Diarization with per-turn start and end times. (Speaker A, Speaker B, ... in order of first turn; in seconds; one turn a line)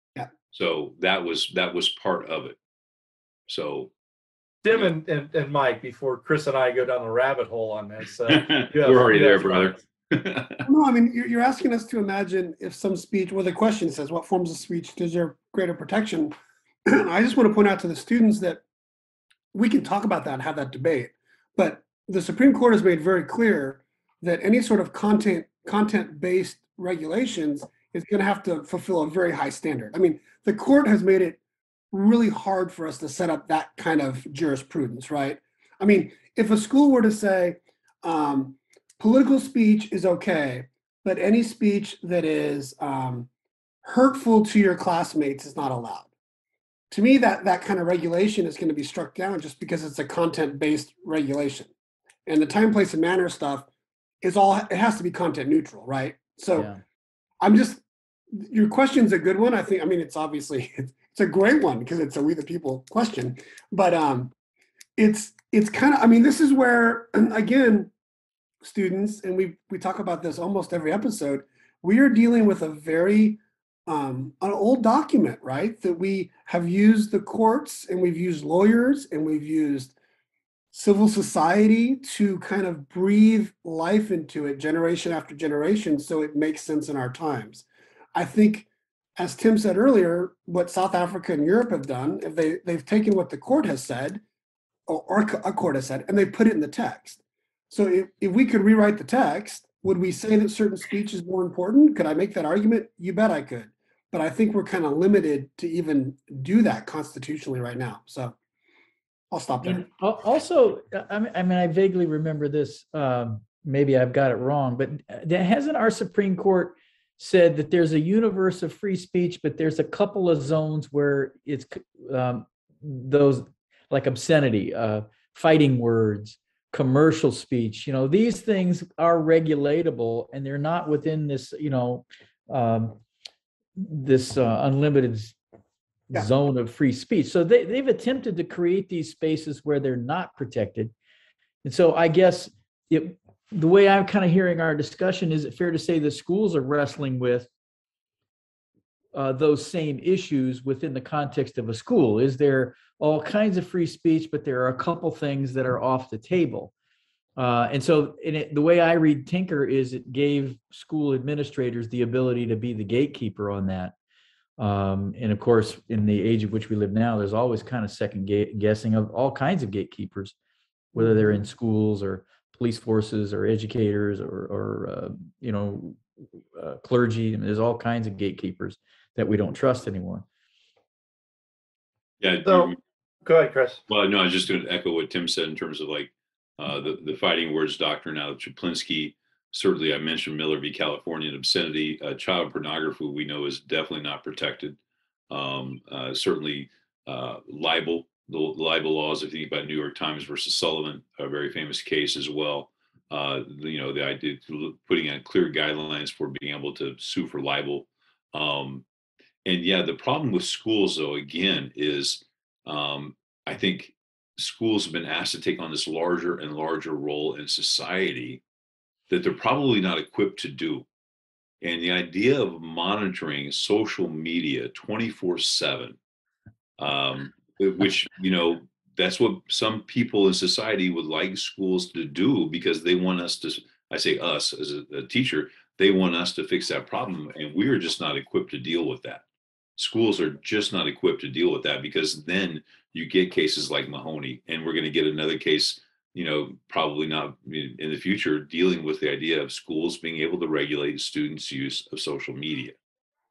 Speaker A: 0.5-2.6
Speaker A: 3.5-3.9
Speaker B: 4.6-9.7
Speaker A: 8.3-10.6
Speaker C: 10.6-16.3
Speaker C: 16.9-18.6
Speaker C: 19.5-31.4
Speaker C: 31.9-43.3
Speaker C: 43.8-46.1
Speaker C: 46.9-51.7
Speaker C: 52.2-53.7
Speaker C: 54.2-56.7
Speaker D: 56.5-56.8
Speaker C: 57.4-64.3
Speaker C: 65.0-67.9
Speaker C: 68.6-79.9
Speaker C: 80.7-94.2
Speaker C: 94.9-108.3
Speaker C: 109.3-109.9
Speaker D: 109.6-133.0
Speaker D: 133.8-135.4
Speaker D: 136.1-140.9
Speaker D: 141.6-147.5
Speaker D: 149.1-156.7
Speaker D: 157.4-163.9
Speaker D: 164.6-170.3
Speaker D: 170.9-176.0
Speaker D: 176.5-180.2
Speaker A: 182.2-182.8
Speaker B: 182.4-182.7
Speaker B: 183.2-183.8
Speaker A: 183.9-194.8
Speaker A: 195.3-208.8
Speaker A: 209.4-218.4
Speaker A: 219.1-220.8
Speaker A: 221.6-226.0
Speaker A: 226.8-239.2
Speaker A: 239.8-252.8